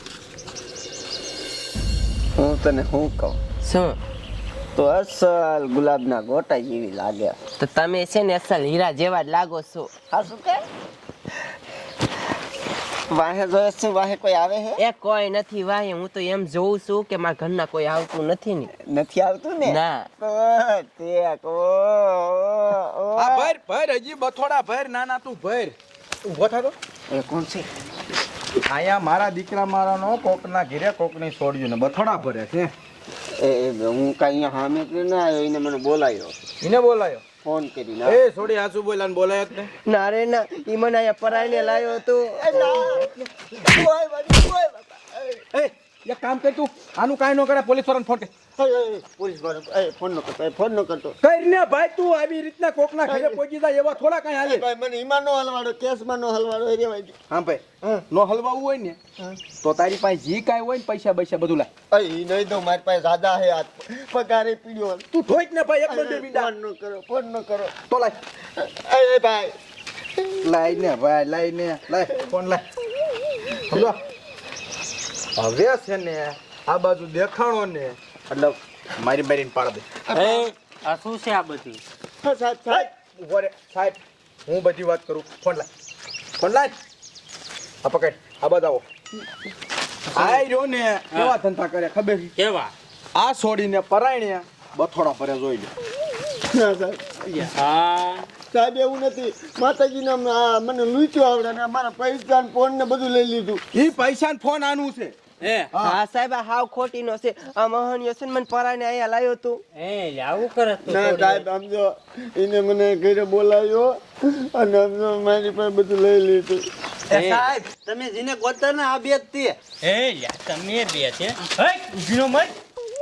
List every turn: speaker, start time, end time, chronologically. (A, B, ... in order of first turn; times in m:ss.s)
0:02.4-0:03.4 A
0:03.6-0:04.0 B
0:04.8-0:07.4 A
0:07.6-0:09.9 B
0:10.1-0:10.6 A
0:13.1-0:14.8 A
0:14.8-0:18.7 B
0:18.8-0:23.5 A
0:19.6-0:20.1 B
0:23.2-0:26.8 C
0:27.1-0:27.7 A
0:28.6-0:32.7 C
0:33.4-0:36.3 A
0:36.6-0:37.2 C
0:37.4-0:38.2 A
0:38.1-0:39.7 C
0:39.9-0:42.9 B
0:41.3-0:45.4 A
0:42.6-0:43.8 C
0:45.5-0:48.3 C
0:48.6-0:51.2 A
0:51.2-0:54.6 C
0:53.1-0:53.4 A
0:54.4-0:57.2 A
0:57.3-0:59.0 C
0:59.6-1:01.7 C
1:01.9-1:05.1 A
1:05.1-1:06.5 C
1:05.9-1:07.7 A
1:07.9-1:08.2 C
1:08.6-1:09.6 A
1:10.4-1:12.7 C
1:13.7-1:14.0 C
1:15.4-1:19.9 C
1:20.1-1:20.5 A
1:20.1-1:21.8 D
1:22.2-1:22.9 A
1:22.7-1:25.7 C
1:26.4-1:26.7 C
1:27.8-1:28.8 C
1:30.1-1:30.4 D
1:30.1-1:32.3 C
1:31.1-1:31.4 D
1:32.4-1:32.7 D
1:33.2-1:35.7 C
1:36.5-1:37.5 A
1:37.4-1:38.3 D
1:38.5-1:43.6 A
1:43.7-1:45.2 C
1:45.4-1:45.8 D
1:45.7-1:46.0 C
1:45.8-1:49.6 B
1:49.8-1:51.5 D
1:50.8-1:56.7 A
1:57.1-1:59.6 E
1:57.1-1:57.5 D
1:59.8-2:02.5 D